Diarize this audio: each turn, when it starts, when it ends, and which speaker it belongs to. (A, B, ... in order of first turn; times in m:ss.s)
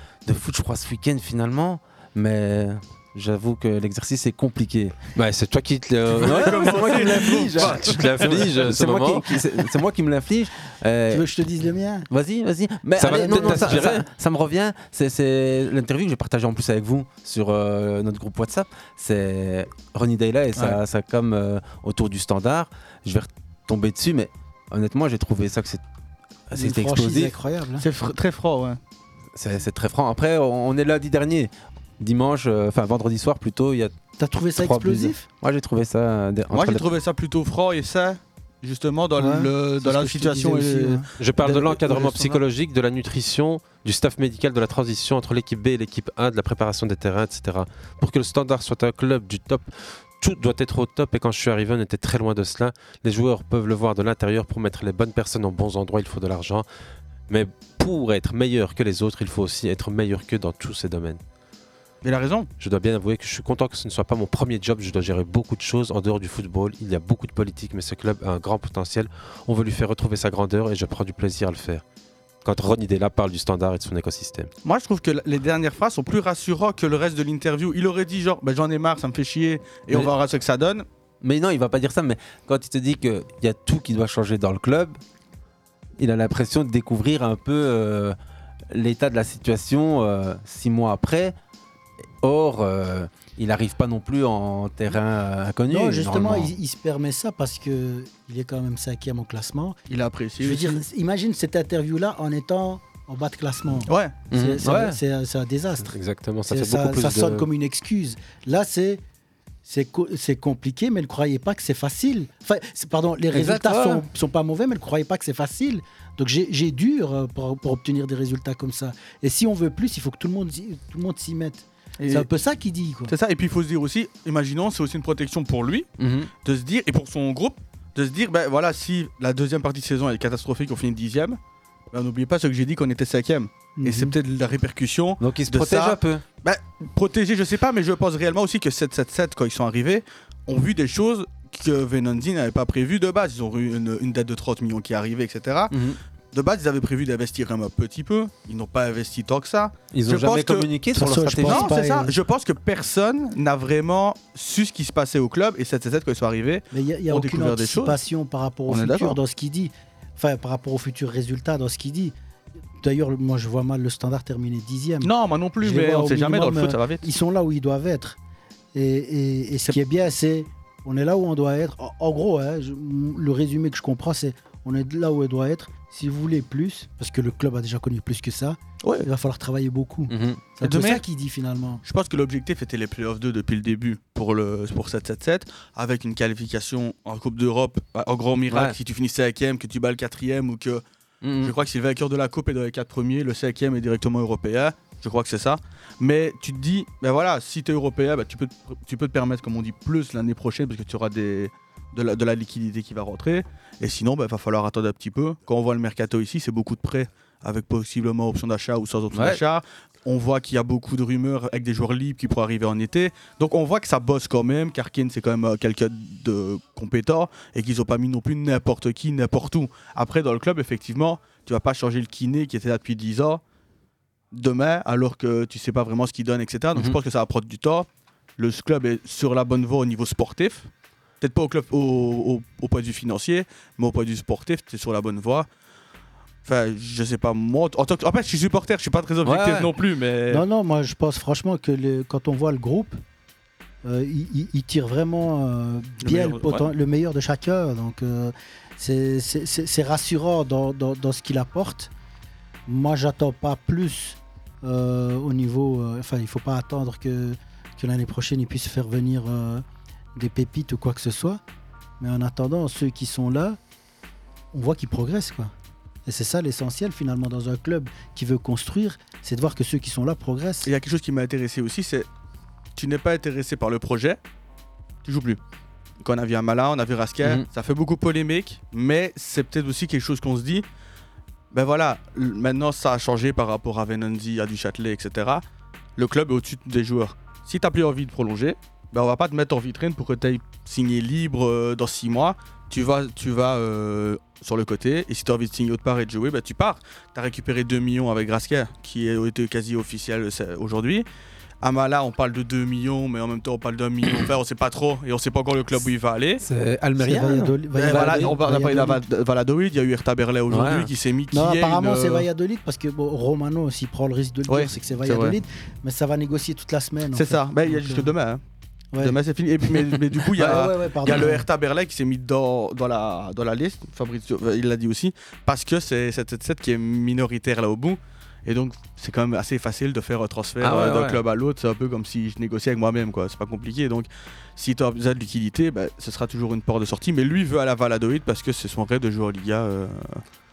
0:00.2-0:05.0 A
0:05.2-0:09.4 B
0:06.1-0:08.4 C
0:06.1-0:11.3 A
0:11.1-0:12.1 D
0:12.1-0:25.8 A
0:13.0-0:14.0 B
0:13.3-0:13.7 C
0:26.5-0:27.4 A
0:26.6-0:27.8 D
0:27.8-0:28.8 C
0:29.3-0:33.9 A
0:34.2-0:35.2 D
0:34.6-0:36.9 A
0:36.5-0:42.4 C
0:39.2-0:41.1 D
0:41.2-0:49.7 B
0:50.2-0:56.6 B
0:57.3-1:01.2 B
1:02.0-1:02.5 C
1:02.6-1:11.8 B
1:12.4-1:14.5 B
1:14.6-1:20.8 C
1:21.2-1:25.0 A
1:26.0-1:28.2 A
1:28.7-1:31.3 A
1:32.2-1:36.5 A
1:35.7-1:39.8 D
1:39.9-1:40.8 C
1:40.4-1:45.9 D
1:43.9-1:44.2 C
1:44.3-1:45.0 A
1:45.9-1:47.5 B
1:46.5-1:49.0 D
1:49.6-2:03.1 D
1:53.3-1:54.0 A
2:02.0-2:02.3 C
2:03.1-2:05.9 C
2:06.0-2:06.3 A
2:06.4-2:11.4 C
2:11.9-2:25.7 C
2:13.8-2:14.1 D
2:15.2-2:16.2 A
2:25.7-2:26.0 A
2:26.3-2:30.7 C
2:29.9-2:31.7 A
2:30.9-2:32.1 D
2:31.4-2:38.0 C
2:36.7-2:42.1 D
2:38.7-2:39.2 C
2:42.8-2:48.2 D
2:45.0-2:47.0 C
2:48.7-3:01.8 D
2:58.8-2:59.1 C
3:00.1-3:00.4 A
3:00.6-3:01.0 C
3:01.8-3:10.8 C
3:08.5-3:08.8 A
3:11.2-3:11.5 A
3:11.4-3:43.4 C
3:29.1-3:29.4 A
3:44.3-3:50.7 C
3:51.2-3:55.5 C
3:56.4-4:00.4 C
3:59.2-3:59.7 A
4:00.3-4:03.0 D
4:03.8-4:11.9 D
4:06.0-4:06.7 C
4:12.7-4:19.6 D
4:20.2-4:21.4 D
4:22.0-4:23.6 D
4:24.5-4:25.5 D
4:26.0-4:30.7 D
4:30.6-4:32.1 C
4:32.8-4:34.2 C
4:35.0-4:35.4 C
4:36.0-4:40.6 C
4:41.5-4:45.4 C
4:46.0-5:01.1 C
5:01.6-5:06.4 C
5:06.4-5:08.4 A
5:07.0-5:09.0 D
5:07.8-5:12.3 C
5:10.5-5:10.9 A
5:11.3-5:18.1 D
5:14.5-5:15.4 C
5:17.1-5:18.4 C
5:18.9-5:19.2 D
5:19.0-5:40.2 C
5:20.4-5:21.4 D
5:30.6-5:31.2 A